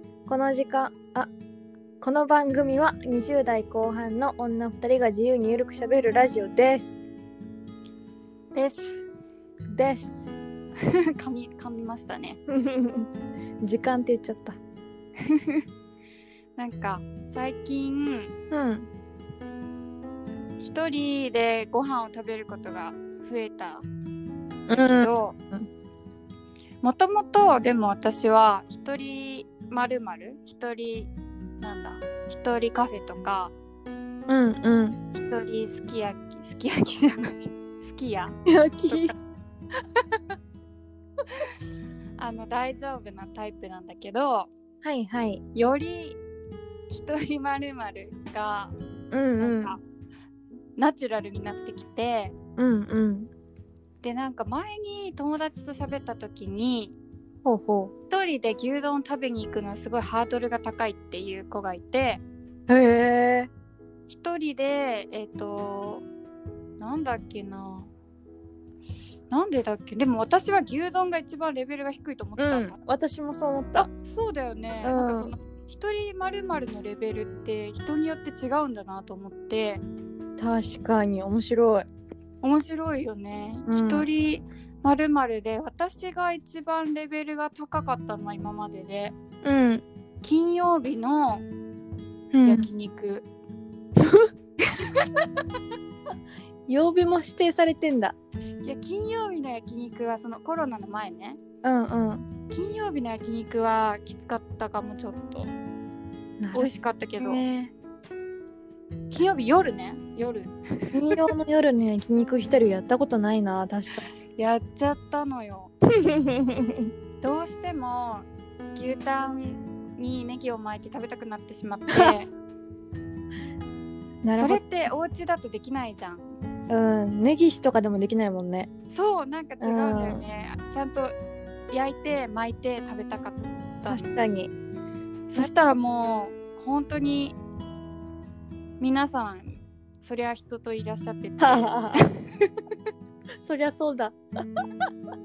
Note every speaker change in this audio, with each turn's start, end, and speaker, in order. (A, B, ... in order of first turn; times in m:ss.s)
0:00.3-0:01.3 A
0:02.0-0:07.0 A
0:08.5-0:09.0 B
0:09.7-0:10.3 A
0:11.1-0:12.4 B
0:12.5-0:13.1 A
0:13.6-0:14.6 A
0:15.2-0:15.6 B
0:16.6-0:18.3 B
0:18.5-0:18.9 A
0:20.6-0:23.8 B
0:24.7-0:25.7 A
0:24.7-0:25.4 B
0:26.8-0:31.1 B
0:31.6-0:33.5 B
0:34.3-0:35.0 A
0:35.1-0:38.4 B
0:38.5-0:39.1 A
0:38.9-0:39.1 B
0:42.2-0:44.5 B
0:44.8-0:45.4 A
0:45.5-0:46.2 B
0:46.9-0:48.8 B
0:49.1-0:49.7 A
0:49.4-0:49.8 B
0:50.8-0:52.3 B
0:52.6-0:53.3 A
0:54.0-0:57.0 B
0:57.4-0:57.9 A
0:58.1-1:02.2 B
1:02.7-1:03.5 A
1:04.1-1:06.0 B
1:06.8-1:07.9 B
1:09.3-1:12.8 B
1:12.4-1:13.9 A
1:13.7-1:19.8 B
1:14.8-1:15.3 A
1:20.4-1:21.9 A
1:22.4-1:29.1 B
1:23.7-1:24.1 A
1:29.4-1:29.8 A
1:30.2-1:31.4 B
1:32.3-1:32.7 A
1:32.4-1:33.2 B
1:34.6-1:35.3 B
1:36.7-1:38.1 A
1:38.6-1:41.4 B
1:41.6-1:42.2 A
1:42.5-1:45.5 B
1:46.4-1:47.7 A
1:46.5-1:47.4 B
1:49.1-1:51.2 B
1:50.9-1:54.0 A
1:54.3-1:56.1 B
1:56.1-1:56.9 A
1:57.2-2:02.3 B
2:04.2-2:04.6 A
2:04.3-2:06.3 B
2:06.7-2:08.7 A
2:08.9-2:11.1 B
2:09.6-2:10.2 A
2:11.7-2:14.0 B
2:13.9-2:14.5 A
2:15.3-2:17.4 B
2:18.8-2:22.8 B
2:21.4-2:22.0 A
2:23.4-2:24.2 A